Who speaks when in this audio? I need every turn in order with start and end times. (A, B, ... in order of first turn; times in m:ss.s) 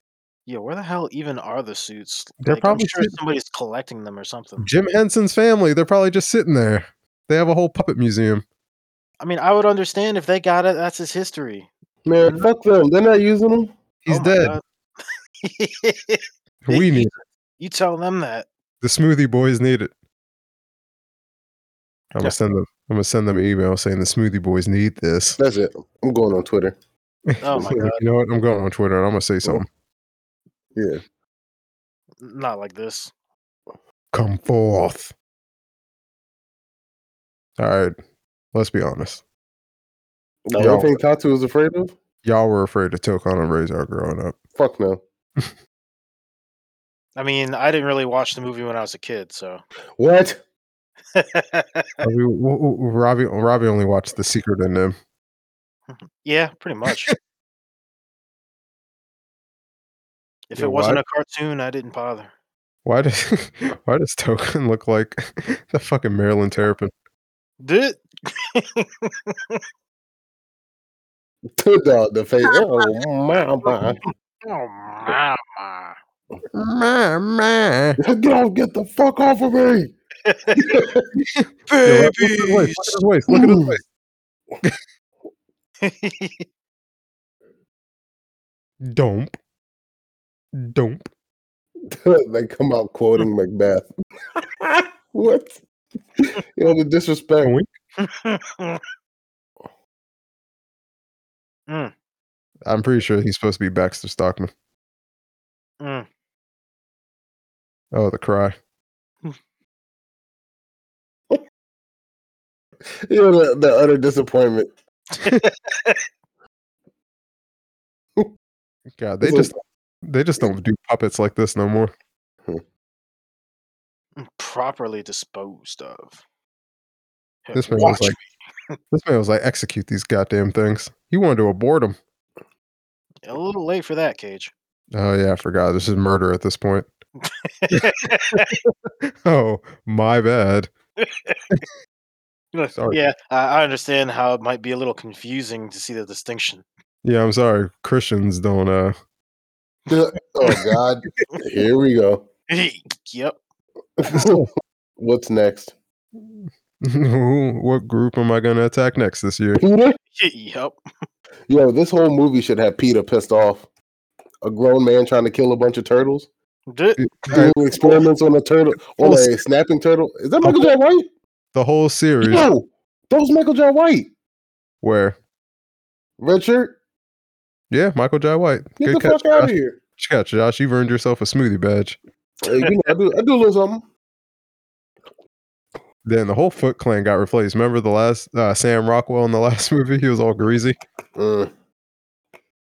0:00.5-0:04.7 A
0:02.4-0:03.2 B
0:04.6-0:08.4 B
0:09.2-0:11.7 A
0:12.0-0:13.7 C
0:14.0-0:14.6 B
0:14.1-0:14.6 A
0:15.4-0:17.0 A
0:16.6-0:17.2 B
0:17.6-0:18.5 A
0:18.8-0:19.9 B
0:22.1-0:25.4 B
0:25.4-0:26.8 C
0:27.3-0:29.7 B
0:27.4-0:28.0 A
0:30.8-0:31.0 C
0:32.2-0:33.1 A
0:34.1-0:35.1 B
0:37.6-0:38.0 B
0:38.5-0:39.2 B
0:40.5-0:41.9 C
0:40.6-0:41.0 B
0:42.2-0:44.4 B
0:44.6-0:45.0 C
0:47.2-0:49.6 A
0:50.0-0:50.4 C
0:51.1-0:52.0 A
0:52.0-0:55.0 B
0:55.9-0:57.1 A
0:56.9-0:57.1 B
1:00.5-1:02.3 A
1:00.6-1:01.0 B
1:02.8-1:06.9 B
1:07.6-1:09.6 A
1:11.6-1:14.0 C
1:12.5-1:12.9 A
1:14.4-1:16.0 A
1:16.5-1:18.0 B
1:18.0-1:19.9 C
1:20.2-1:20.8 A
1:20.6-1:21.1 C
1:21.2-1:23.8 B
1:21.7-1:23.0 A
1:23.3-1:23.8 C
1:25.8-1:26.4 A
1:28.8-1:29.3 B
1:30.5-1:31.1 B
1:31.9-1:35.6 C
1:36.2-1:37.5 C
1:37.4-1:37.7 B
1:38.0-1:38.8 A
1:41.7-1:41.9 A
1:42.7-1:44.5 B
1:45.8-1:46.1 A
1:47.9-1:48.6 B
1:53.0-1:54.7 C
1:55.1-1:56.0 A
1:59.0-2:01.9 B
1:59.2-1:59.5 C
2:04.2-2:06.2 A
2:07.4-2:08.8 A
2:07.5-2:08.2 B
2:08.9-2:12.0 B
2:13.3-2:14.5 A
2:14.9-2:16.9 B
2:17.2-2:18.6 A
2:17.7-2:20.7 B
2:21.0-2:21.4 A
2:22.5-2:26.6 A
2:27.0-2:29.0 B
2:29.9-2:32.3 C
2:32.5-2:33.4 A
2:34.0-2:34.5 C
2:34.1-2:34.5 B
2:35.0-2:35.7 C
2:36.2-2:39.6 B
2:39.6-2:40.0 C
2:40.2-2:40.8 A
2:41.5-2:43.7 C
2:44.4-2:46.3 C
2:46.7-2:47.1 A
2:47.0-2:47.6 B
2:47.3-2:51.1 C
2:49.0-2:49.3 B
2:50.4-2:50.7 B
2:51.5-2:52.5 B
2:52.2-2:54.1 C
2:54.8-2:55.2 B
2:56.2-2:56.8 C
2:57.7-3:02.0 B
2:58.8-2:59.8 C
3:02.4-3:03.9 C
3:06.0-3:10.8 B
3:11.2-3:11.5 C